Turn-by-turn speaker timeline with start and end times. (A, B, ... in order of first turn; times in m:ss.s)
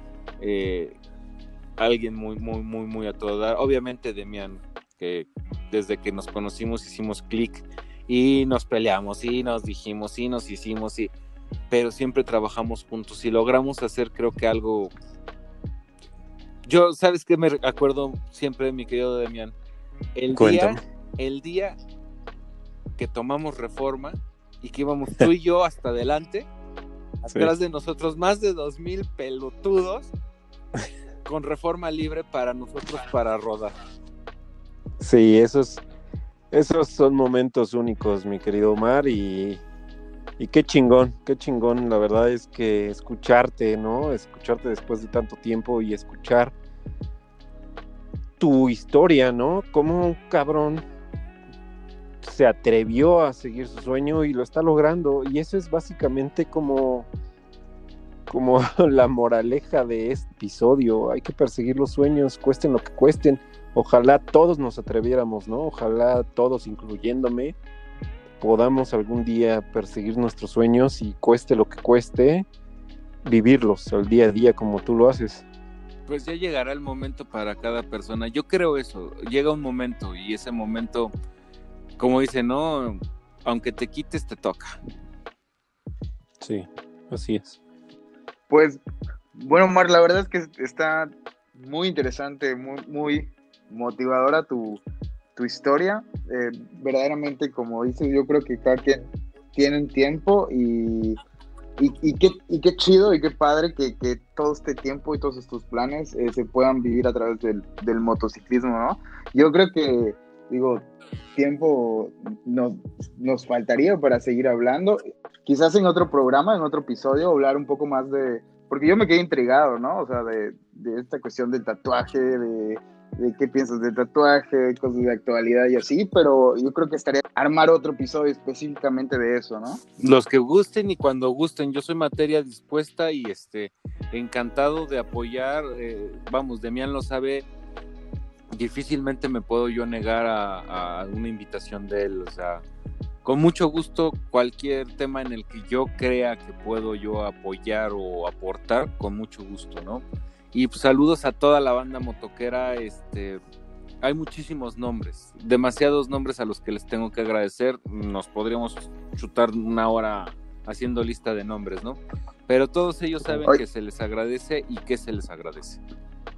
0:00.4-0:01.0 A
0:01.8-0:11.1 A
0:11.7-0:14.9 A
0:16.6-0:19.6 A
0:20.2-0:21.8 A
0:20.4-0:20.8 B
0:23.0-0:26.5 A
0:27.2-0:30.1 A
0:31.2-0:33.7 A
0:35.0-0:35.8 B
0:36.5-0:39.6 B
0:40.4-0:46.5 B
0:48.4-0:50.8 B
0:52.2-0:57.1 B
0:58.3-1:07.6 B
1:08.4-1:12.5 B
1:13.2-1:15.4 B
1:16.1-1:21.1 A
1:22.0-1:24.8 A
1:26.4-1:27.6 B
1:28.5-1:28.8 C
1:29.4-1:34.8 C
1:35.4-1:41.2 C
1:41.8-2:09.8 C
2:10.0-2:17.5 A
2:18.6-2:22.6 A
2:23.2-2:33.4 A
2:34.0-2:45.8 A